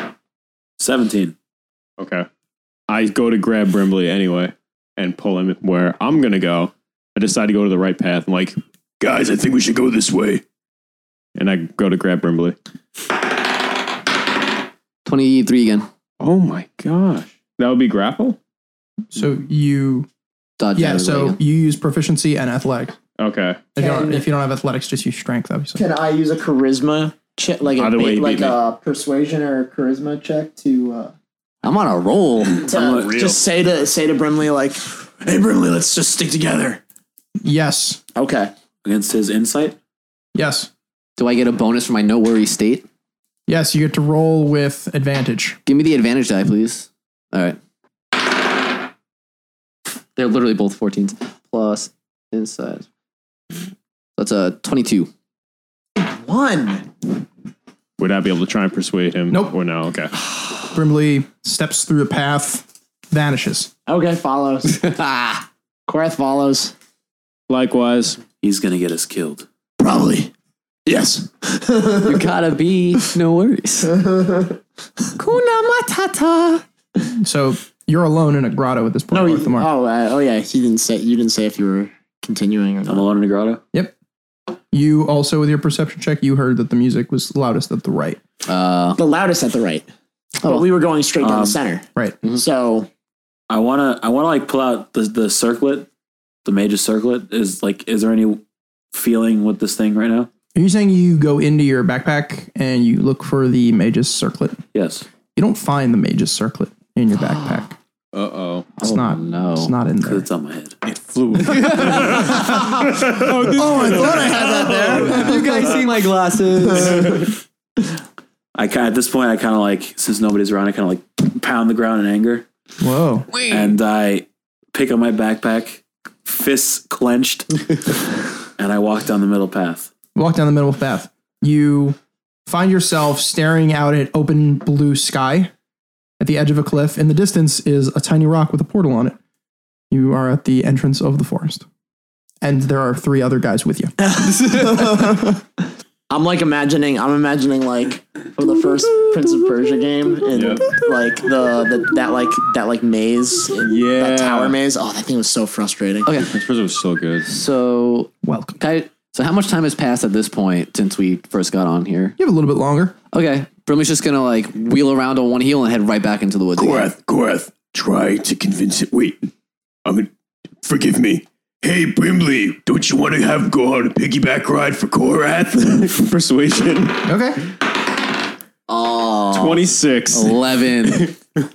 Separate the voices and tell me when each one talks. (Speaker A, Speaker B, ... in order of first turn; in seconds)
Speaker A: 0.8-1.3, 32.7-33.4, 38.8-39.8, 68.4-69.5, 82.9-83.6, 91.2-91.6, 93.5-95.9, 96.4-98.4, 98.9-100.3, 104.7-105.0, 110.0-110.8, 118.5-122.5, 123.5-127.7, 128.6-129.9
Speaker B: 2.0-2.3, 2.9-8.6, 11.3-12.6, 16.2-18.4, 23.2-23.7, 27.8-28.6, 58.0-60.1, 67.5-68.2, 108.1-108.7, 110.8-115.8, 116.7-117.3, 150.3-150.7, 153.6-154.6, 156.2-157.3, 175.8-177.1, 179.3-181.2
Speaker C: 9.0-10.4, 166.6-169.3, 169.8-170.1, 170.6-175.9
Speaker D: 15.0-15.9, 20.6-21.4, 31.6-32.6, 41.2-42.9, 45.7-47.6, 50.1-52.9, 54.2-55.1, 64.7-65.4, 72.0-73.9, 75.2-76.6, 88.5-89.0, 108.8-109.7, 111.5-112.2, 115.0-117.0, 123.3-123.8, 157.2-162.2, 163.1-166.9, 178.7-181.1
Speaker E: 19.1-20.1, 20.8-23.0, 23.8-25.8, 37.4-38.0, 40.3-40.7, 43.5-45.6, 59.3-59.5, 60.7-63.7, 77.2-79.7, 84.7-88.2, 100.5-104.6, 105.3-107.7, 108.8-110.3, 122.8-123.3, 130.1-135.5, 136.2-139.2, 139.9-141.6, 142.4-143.9, 158.2-158.6, 162.2-162.9, 177.0-177.4
Speaker F: 23.8-24.2, 25.8-31.1, 32.6-36.8, 38.1-38.5, 56.0-56.9, 63.9-64.8, 65.9-66.7, 69.8-70.3, 70.8-72.2, 73.9-74.6, 79.1-83.1, 89.0-89.9, 90.4-92.9, 113.5-115.7, 116.8-117.2, 144.0-145.4, 146.1-156.1